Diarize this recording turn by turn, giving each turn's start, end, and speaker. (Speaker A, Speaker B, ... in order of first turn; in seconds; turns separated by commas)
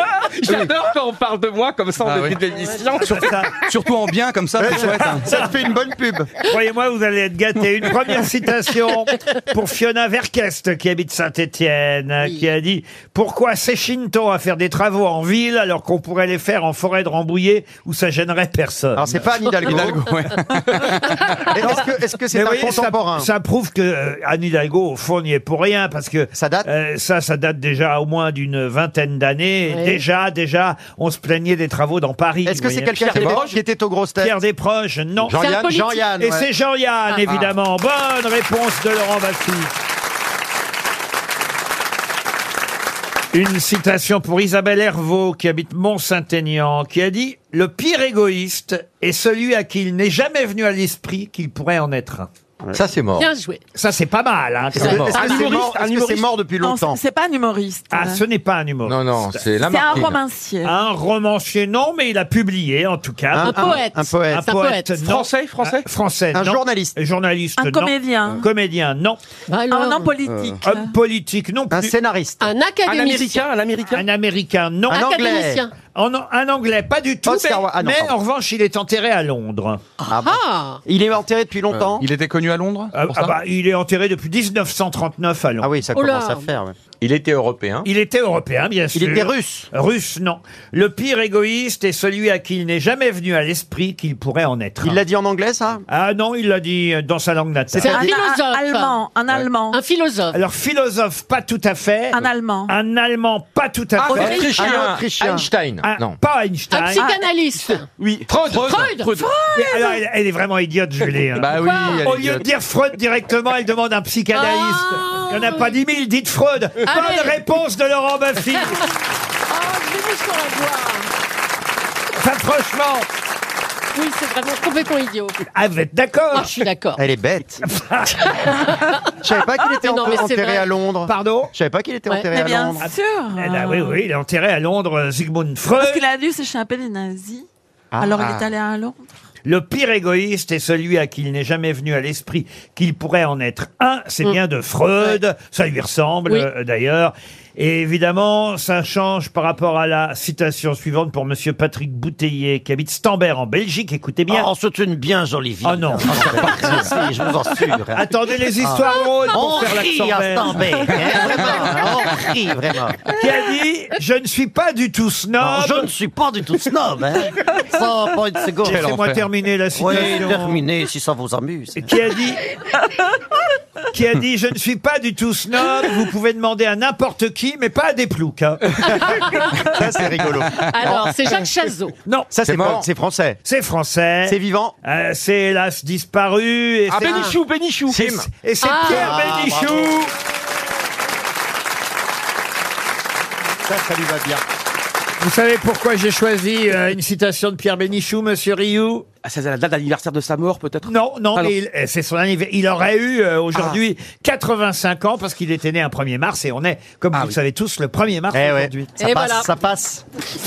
Speaker A: 0.2-3.3, Speaker B: 2.0-2.4, Speaker C: 3.1-3.6, Speaker B: 3.1-5.3, Speaker D: 4.6-6.3, Speaker C: 6.4-19.2, Speaker D: 18.9-20.1, Speaker B: 19.6-21.5, Speaker D: 21.4-23.3, Speaker C: 22.3-33.4, Speaker D: 26.4-26.7, Speaker E: 29.7-30.0, Speaker D: 32.5-34.4, Speaker A: 33.0-33.6, Speaker C: 34.2-35.4, Speaker D: 35.2-36.5, Speaker E: 35.4-36.1, Speaker C: 36.2-39.7, Speaker C: 43.3-52.3, Speaker F: 52.7-53.3, Speaker E: 53.2-53.6, Speaker C: 53.8-55.5, Speaker D: 54.7-57.0, Speaker F: 54.8-55.2, Speaker A: 54.9-56.3, Speaker G: 56.6-58.2, Speaker C: 57.9-60.1, Speaker F: 58.9-60.2, Speaker G: 59.6-60.8, Speaker C: 60.6-69.2, Speaker D: 63.3-64.5, Speaker E: 63.4-64.9, Speaker A: 65.0-65.8, Speaker D: 66.3-67.0, Speaker G: 67.6-68.4, Speaker E: 69.5-70.1, Speaker G: 69.7-70.9, Speaker C: 70.6-71.9, Speaker D: 71.7-72.5, Speaker E: 72.4-73.4, Speaker A: 72.9-74.1, Speaker C: 73.9-75.1, Speaker D: 74.9-75.6, Speaker E: 74.9-75.7, Speaker C: 75.9-79.8, Speaker D: 77.3-78.2, Speaker E: 80.0-80.8, Speaker D: 80.1-82.1, Speaker B: 81.7-83.4, Speaker C: 82.9-85.7, Speaker D: 85.6-86.8, Speaker E: 86.0-86.5, Speaker F: 87.0-87.9, Speaker C: 87.8-95.0, Speaker D: 88.9-89.7, Speaker D: 94.8-95.8, Speaker C: 95.9-98.0, Speaker E: 97.8-99.0, Speaker D: 97.8-98.1, Speaker G: 97.9-99.8, Speaker E: 99.7-100.4, Speaker C: 100.3-104.7, Speaker G: 102.1-102.7, Speaker A: 104.0-104.8, Speaker F: 104.1-106.2, Speaker D: 104.4-105.5, Speaker C: 105.8-107.0, Speaker E: 106.7-107.9, Speaker A: 108.0-109.3, Speaker B: 108.4-108.9, Speaker E: 108.7-109.2, Speaker G: 109.2-110.0, Speaker C: 109.5-118.8, Speaker B: 111.4-112.5, Speaker E: 111.6-112.0, Speaker E: 114.3-115.8, Speaker E: 116.8-117.4, Speaker E: 118.5-118.8, Speaker E: 119.5-121.1, Speaker C: 122.2-123.1, Speaker E: 124.0-125.4, Speaker C: 125.5-126.5, Speaker E: 126.3-127.0, Speaker D: 127.0-127.7, Speaker C: 127.8-128.3, Speaker E: 128.4-129.0, Speaker D: 129.2-132.8, Speaker E: 129.6-130.7, Speaker C: 131.1-131.5, Speaker G: 132.3-134.0, Speaker C: 132.8-136.0, Speaker G: 135.8-137.4, Speaker D: 137.9-138.4, Speaker G: 138.0-139.1, Speaker C: 139.4-154.5, Speaker D: 154.3-158.1, Speaker C: 155.6-157.0, Speaker C: 157.9-160.7, Speaker D: 158.6-163.0, Speaker C: 163.2-165.9, Speaker D: 165.4-168.9, Speaker B: 168.6-169.2, Speaker C: 168.7-170.6, Speaker D: 169.8-171.9, Speaker C: 171.8-172.4, Speaker C: 173.9-179.2, Speaker E: 178.9-179.5, Speaker D: 179.5-181.2, Speaker E: 180.7-181.9, Speaker C: 182.1-182.3, Speaker D: 182.3-183.4, Speaker F: 182.5-182.9, Speaker C: 183.4-187.3, Speaker D: 184.2-184.8, Speaker A: 186.9-188.2, Speaker E: 187.0-187.3, Speaker F: 187.9-188.3, Speaker C: 188.3-190.1, Speaker E: 188.6-189.3, Speaker D: 188.8-189.9, Speaker D: 193.7-194.4, Speaker C: 195.2-199.1, Speaker A: 199.2-201.5, Speaker C: 200.8-208.9, Speaker D: 208.3-210.1, Speaker E: 209.0-209.5